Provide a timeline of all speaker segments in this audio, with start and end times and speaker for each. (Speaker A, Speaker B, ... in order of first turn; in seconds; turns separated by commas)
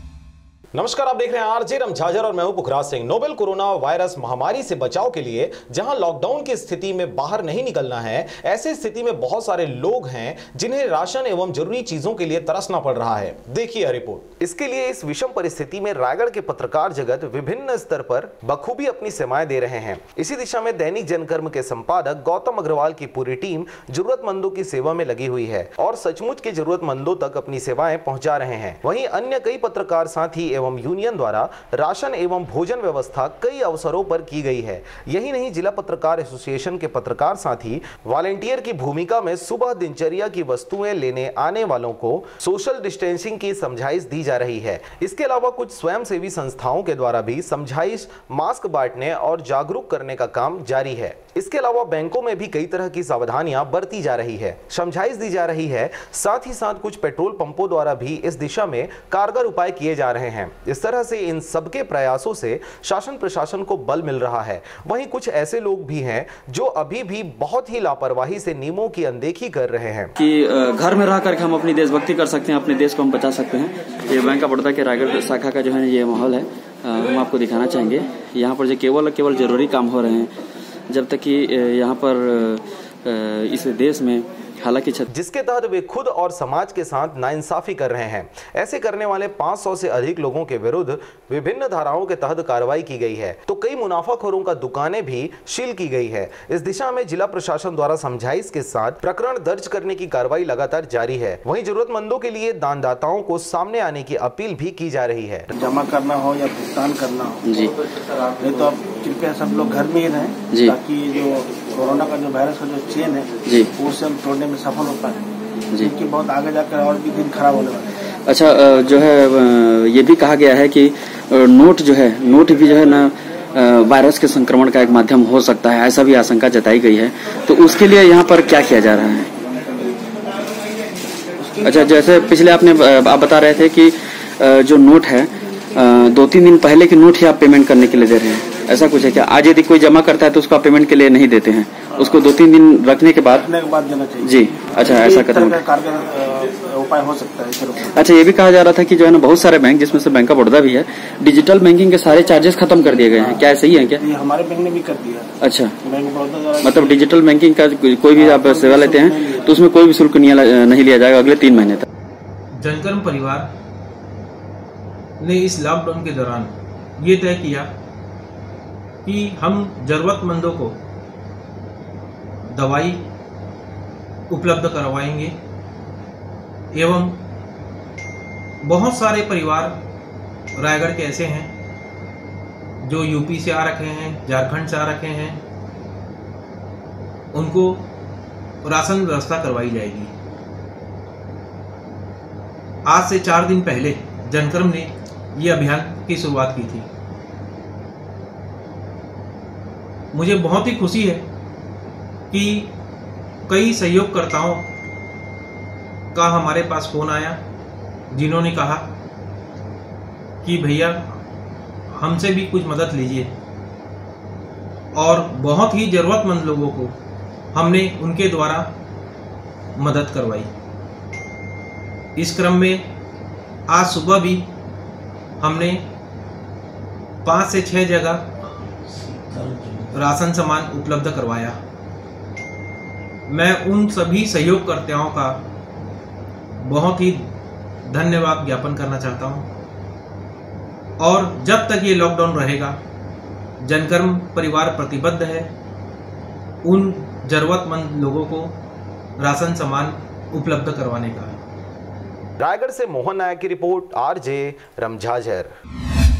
Speaker A: 0.7-70.2, Speaker B: 70.2-80.3, Speaker B: 80.9-85.1, Speaker A: 85.1-105.5, Speaker C: 105.5-107.5, Speaker C: 108.4-115.2, Speaker C: 115.8-117.9, Speaker B: 118.3-129.3, Speaker B: 131.7-143.4, Speaker C: 143.4-147.9, Speaker B: 144.2-145.6, Speaker B: 147.9-154.0, Speaker C: 152.8-157.1, Speaker B: 155.4-155.7, Speaker B: 156.6-161.9, Speaker C: 158.1-159.6, Speaker D: 162.6-163.5, Speaker D: 165.2-167.7, Speaker D: 169.1-170.8, Speaker D: 172.4-173.1, Speaker D: 174.3-175.4, Speaker D: 176.7-177.3, Speaker D: 178.6-179.8, Speaker D: 180.5-181.5, Speaker D: 182.8-185.4, Speaker D: 187.3-187.9, Speaker D: 188.6-190.2, Speaker D: 192.8-196.9, Speaker D: 200.1-201.3, Speaker D: 202.3-202.7, Speaker D: 203.5-204.7, Speaker D: 206.1-207.4, Speaker D: 208.1-208.9, Speaker D: 210.4-211.2, Speaker D: 211.9-213.3, Speaker D: 214.9-217.0, Speaker D: 217.5-218.7, Speaker D: 219.8-220.5, Speaker D: 222.2-222.9, Speaker D: 223.7-224.5, Speaker D: 225.4-225.9, Speaker D: 227.2-228.3, Speaker D: 229.9-231.6, Speaker D: 233.3-235.5, Speaker D: 236.6-237.3, Speaker D: 237.8-239.5, Speaker D: 241.0-242.8, Speaker D: 243.6-245.5, Speaker D: 246.6-248.6, Speaker D: 249.2-251.4, Speaker A: 252.4-255.5